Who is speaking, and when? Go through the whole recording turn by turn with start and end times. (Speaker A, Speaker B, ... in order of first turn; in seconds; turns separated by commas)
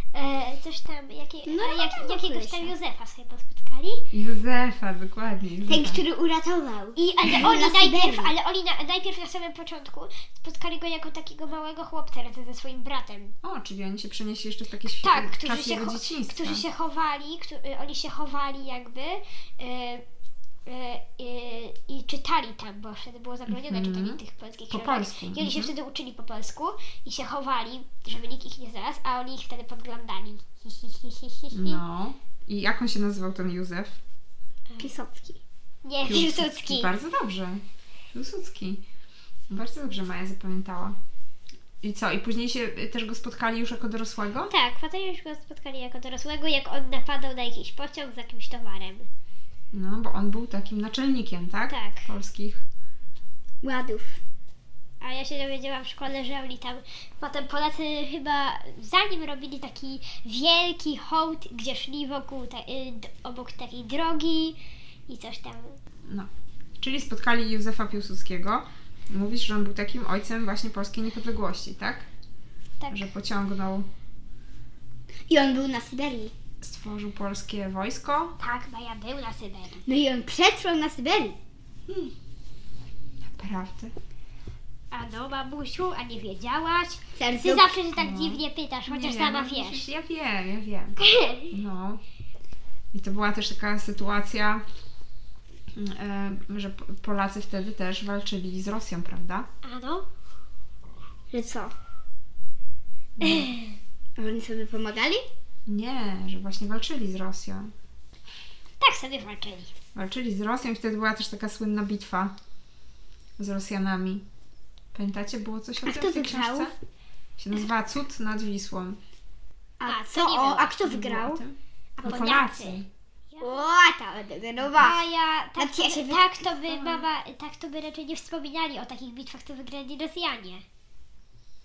Speaker A: 0.1-4.1, Speaker B: 1.5-2.7, Speaker C: 4.1-6.0, Speaker B: 5.7-8.3, Speaker A: 7.0-13.3, Speaker C: 13.4-16.6, Speaker A: 14.8-20.0, Speaker A: 20.7-31.8, Speaker C: 23.5-25.7, Speaker C: 31.5-34.0, Speaker B: 34.8-35.4, Speaker A: 35.8-36.9, Speaker C: 36.0-38.8, Speaker C: 39.5-41.0, Speaker C: 41.8-44.5, Speaker A: 44.5-49.1, Speaker C: 49.7-52.6, Speaker A: 51.7-52.1, Speaker B: 53.6-54.2, Speaker A: 55.0-65.8, Speaker C: 66.1-72.1, Speaker A: 72.8-73.1, Speaker C: 72.9-73.9, Speaker B: 75.3-76.3, Speaker C: 76.6-78.4, Speaker A: 78.4-79.8, Speaker B: 79.9-81.4, Speaker C: 81.9-82.1, Speaker C: 83.3-83.9, Speaker A: 84.9-89.9, Speaker B: 87.2-87.8, Speaker C: 87.9-91.0, Speaker A: 91.0-91.6, Speaker C: 91.5-92.0, Speaker C: 92.9-94.6, Speaker C: 95.7-99.5, Speaker A: 99.6-100.1, Speaker B: 101.3-101.7, Speaker C: 103.2-103.5, Speaker A: 103.2-103.8, Speaker B: 104.2-105.2, Speaker C: 105.7-107.7, Speaker A: 108.8-109.7, Speaker C: 110.0-112.3, Speaker C: 113.4-114.2, Speaker C: 114.9-116.7, Speaker B: 115.8-116.7, Speaker C: 117.4-119.0, Speaker B: 119.8-121.4, Speaker A: 119.9-121.2, Speaker C: 120.8-122.9, Speaker A: 122.0-123.5, Speaker B: 123.4-125.0, Speaker A: 124.8-130.6, Speaker B: 125.6-126.4, Speaker C: 126.6-127.1